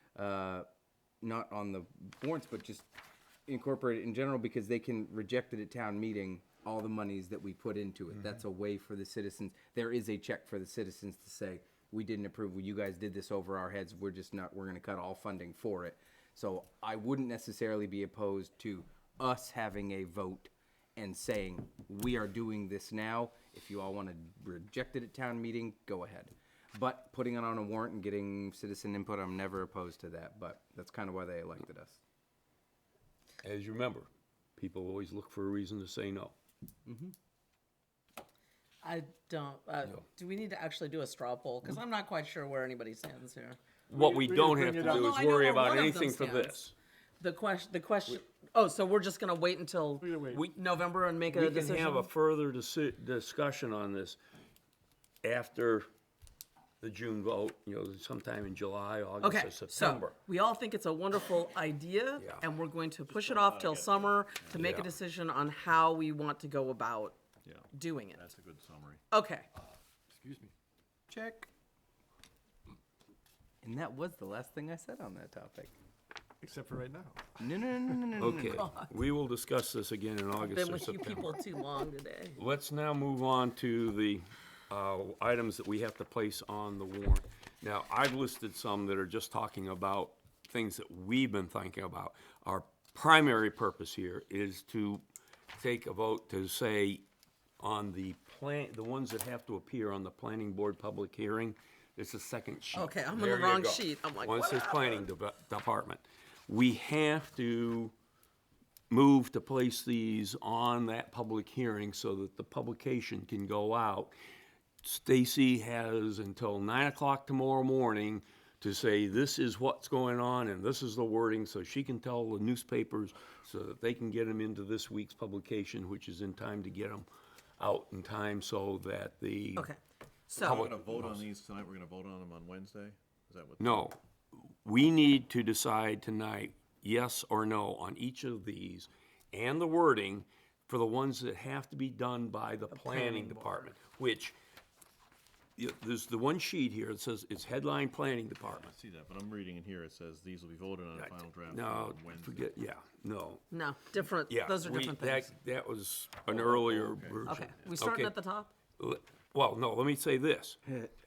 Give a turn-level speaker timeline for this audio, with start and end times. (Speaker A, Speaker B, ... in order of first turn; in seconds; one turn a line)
Speaker A: 0.2-0.7
Speaker A: 1.2-2.9
Speaker A: 3.5-32.0
Speaker B: 33.4-36.4
Speaker A: 36.9-37.1
Speaker C: 38.8-43.6
Speaker D: 43.9-45.2
Speaker B: 43.9-46.7
Speaker C: 44.8-46.7
Speaker C: 47.2-52.1
Speaker D: 50.0-50.5
Speaker B: 50.3-50.6
Speaker B: 51.3-54.2
Speaker B: 55.2-55.9
Speaker B: 56.8-60.1
Speaker C: 59.2-67.2
Speaker B: 62.2-62.4
Speaker E: 63.1-64.6
Speaker B: 64.5-64.9
Speaker E: 67.5-69.0
Speaker C: 67.7-68.2
Speaker C: 69.1-69.5
Speaker D: 70.2-70.5
Speaker A: 71.1-71.5
Speaker A: 73.6-75.7
Speaker D: 76.4-77.4
Speaker A: 77.4-78.7
Speaker B: 78.2-81.4
Speaker C: 78.4-78.9
Speaker C: 80.4-82.4
Speaker B: 82.4-95.0
Speaker B: 95.6-97.0
Speaker B: 97.6-107.9
Speaker C: 102.7-105.1
Speaker B: 108.9-114.1
Speaker B: 114.8-127.1
Speaker B: 127.6-129.7
Speaker C: 129.6-130.7
Speaker E: 130.3-133.9
Speaker B: 130.4-131.3
Speaker B: 133.6-144.4
Speaker C: 142.7-143.5
Speaker B: 145.6-148.7
Speaker E: 148.4-152.6
Speaker B: 151.0-153.5
Speaker C: 153.5-155.3
Speaker B: 154.3-158.2
Speaker E: 156.3-157.8
Speaker C: 157.2-158.5
Speaker B: 158.8-160.9